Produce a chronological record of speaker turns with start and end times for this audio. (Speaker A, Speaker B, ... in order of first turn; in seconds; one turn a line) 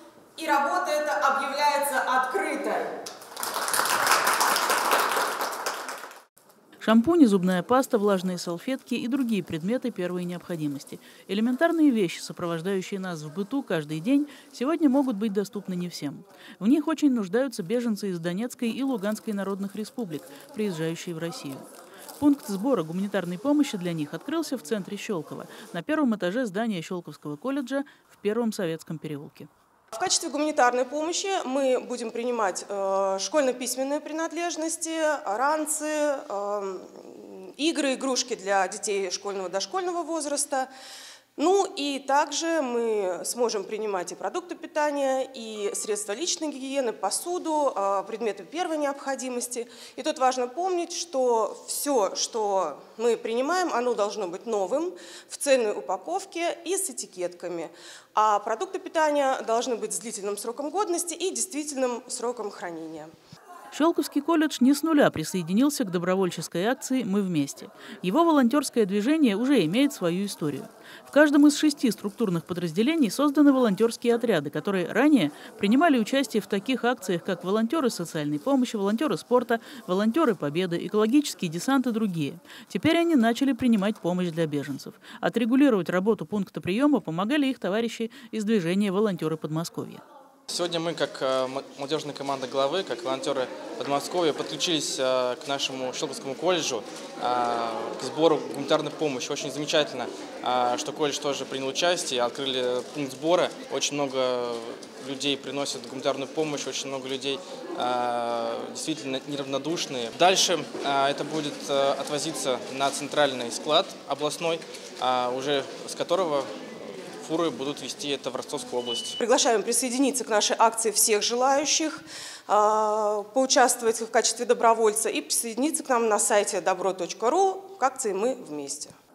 Speaker A: 0.3-3.0
Speaker B: 6.8-21.6
Speaker B: 22.2-29.5
Speaker A: 29.9-40.7
Speaker A: 41.4-63.1
Speaker B: 63.7-90.0
Speaker C: 90.5-116.6
Speaker C: 117.2-119.2
Speaker A: 119.2-128.9